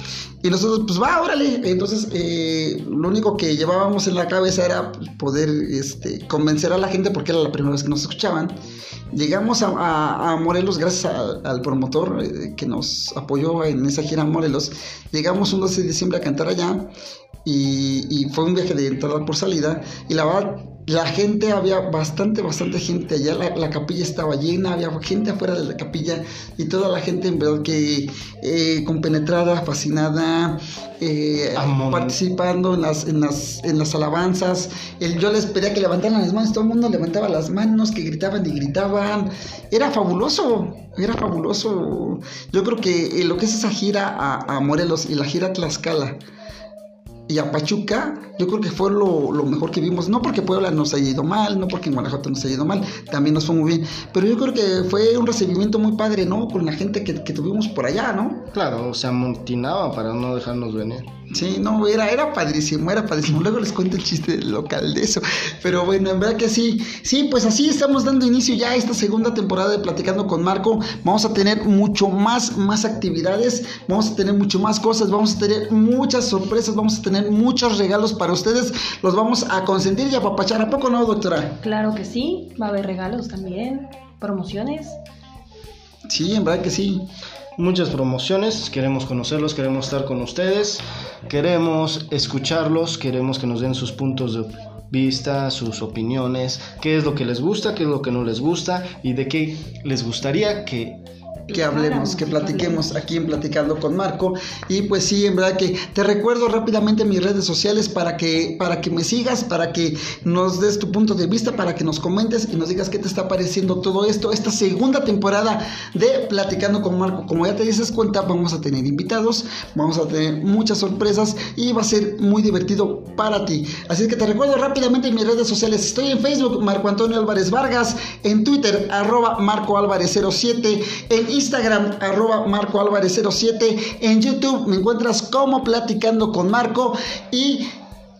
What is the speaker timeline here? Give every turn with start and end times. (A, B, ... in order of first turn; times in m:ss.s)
0:00.4-0:08.5 A
0:09.1-0:16.9 A
0:17.4-0:46.2 A
0:31.6-0:32.2 B
0:47.3-0:58.5 A
0:58.5-1:01.1 B
1:01.3-1:21.6 A
1:21.6-1:25.0 C
1:26.1-1:27.1 A
1:27.6-1:41.0 B
1:41.5-1:43.0 C
1:41.5-2:17.7 A